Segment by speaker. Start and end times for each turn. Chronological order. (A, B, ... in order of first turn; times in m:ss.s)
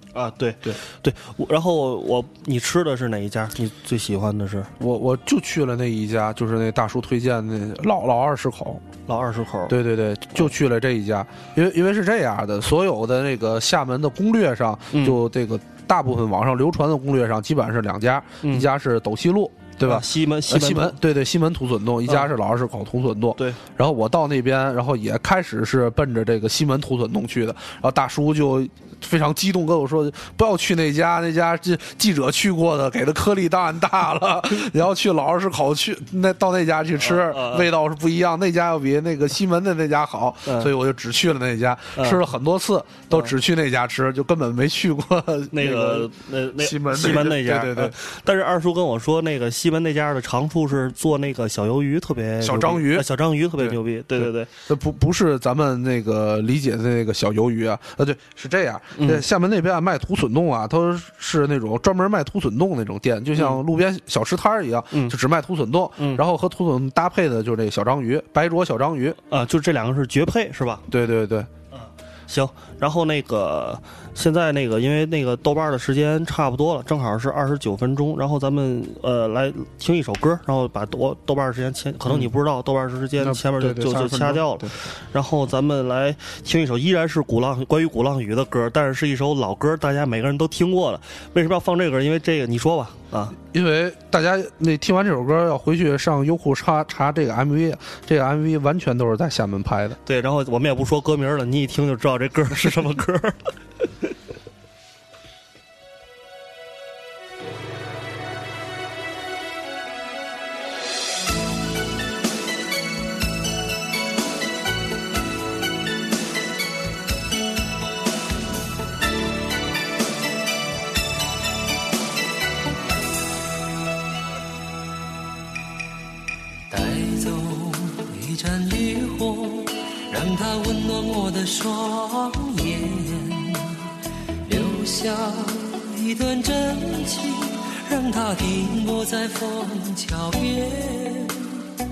0:00.1-0:04.7 A
0:04.8-0:08.8 B
0:09.1-0:09.8 A
0:09.7-0:48.0 B
0:14.9-0:15.2 A
0:18.4-0:18.7 A
0:19.8-0:21.0 A
0:37.0-0:37.7 A
0:40.5-0:40.7 A
0:42.0-0:42.2 A
0:43.1-0:43.4 A
0:45.5-0:54.5 A
0:52.4-1:09.2 B
0:59.0-0:59.2 A
1:03.4-1:03.6 A
1:04.9-1:05.2 A
1:09.3-1:10.8 A
1:10.9-1:11.5 B
1:11.7-1:33.4 A
1:23.2-1:24.8 B
1:33.4-1:40.0 B
1:40.0-1:43.5 A
2:06.7-2:13.8 C
2:14.4-2:21.6 C